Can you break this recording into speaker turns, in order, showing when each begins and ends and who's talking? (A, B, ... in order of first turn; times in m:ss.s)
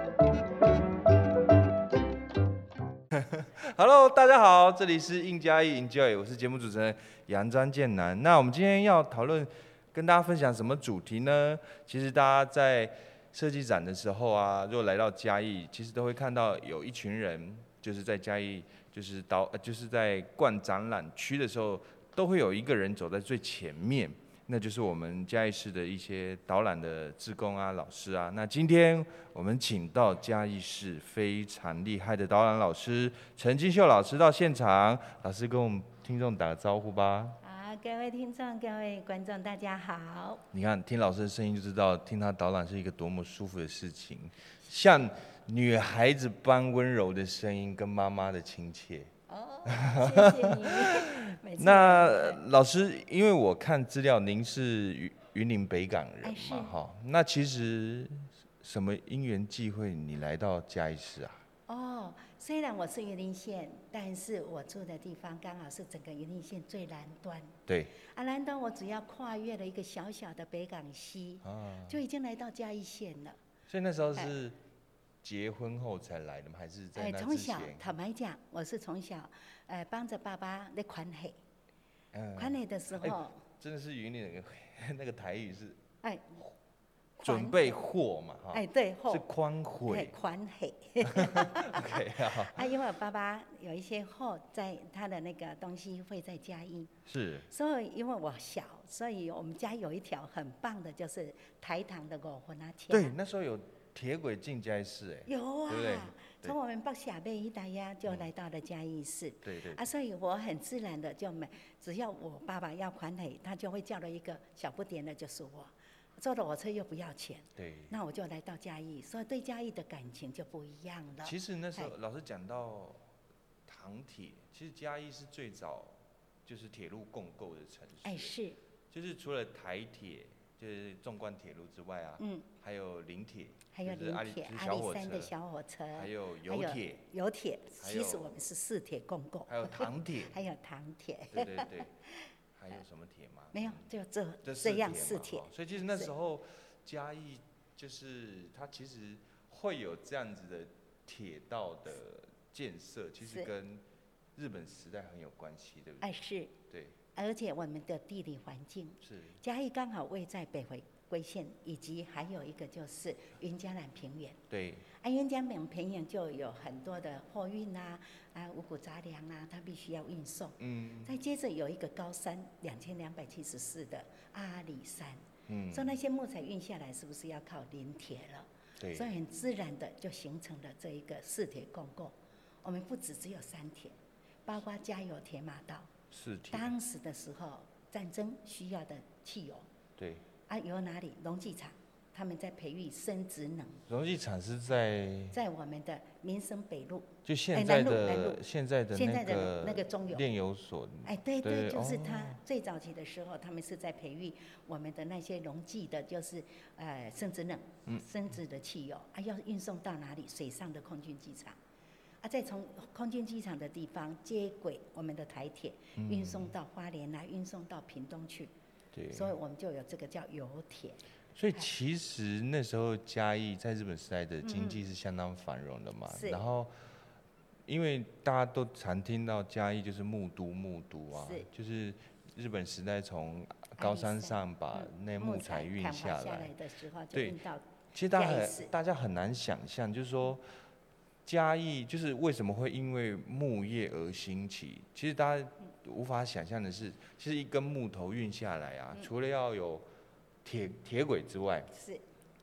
0:03.1-0:37.4 A
0:37.4-0:40.4 B
0:40.5-0:49.1 A
0:49.3-0:52.4 B
0:49.6-1:01.4 A
0:56.2-0:56.7 B
1:01.7-1:13.4 B
1:07.7-1:07.9 A
1:11.4-1:12.0 A
1:13.7-1:14.6 A
1:15.2-1:17.9 A
1:16.9-1:21.4 B
1:22.1-1:25.8 A
1:22.4-1:23.4 B
1:26.0-1:26.4 B
1:27.2-1:27.8 B
1:27.2-1:30.1 A
1:28.5-1:29.2 B
1:29.9-1:36.9 B
1:31.0-1:32.7 A
1:37.0-1:37.5 A
1:37.5-1:43.1 B
1:42.9-1:46.6 A
1:45.2-2:01.9 B
1:49.4-1:49.9 A
1:57.6-1:57.9 A
2:01.2-2:03.0 A
2:03.6-2:08.4 A
2:08.0-2:08.6 B
2:08.9-2:15.3 A
2:12.2-2:12.5 B
2:13.7-2:22.3 B
2:15.9-2:17.1 A
2:17.8-2:18.3 A
2:19.5-2:20.4 A
2:21.3-2:22.0 A
2:22.5-2:23.9 A
2:23.5-2:26.1 B
2:24.4-2:33.8 A
2:34.3-2:37.0 A
2:36.0-2:36.6 B
2:37.1-2:44.4 B
2:39.0-2:39.4 A
2:44.5-2:44.9 A
2:44.9-3:05.9 B
2:50.6-2:51.1 A
2:55.5-2:56.0 A
2:58.8-2:59.1 A
3:06.1-3:06.7 A
3:06.5-3:09.7 B
3:10.0-3:10.2 A
3:10.5-3:13.8 B
3:13.9-3:15.4 A
3:15.3-3:18.4 B
3:17.2-3:22.4 A
3:18.9-3:20.2 B
3:21.0-3:31.6 B
3:32.2-3:38.5 B
3:36.0-3:36.5 A
3:38.9-3:39.3 A
3:39.1-3:41.0 B
3:41.3-3:46.7 A
3:44.4-3:44.8 B
3:46.1-3:46.4 B
3:47.7-3:56.5 A
3:51.1-3:51.4 B
3:53.8-3:58.7 B
3:57.1-3:57.4 A
3:57.9-4:00.4 A
4:01.2-4:09.8 A
4:10.4-4:11.7 A
4:11.7-4:12.0 B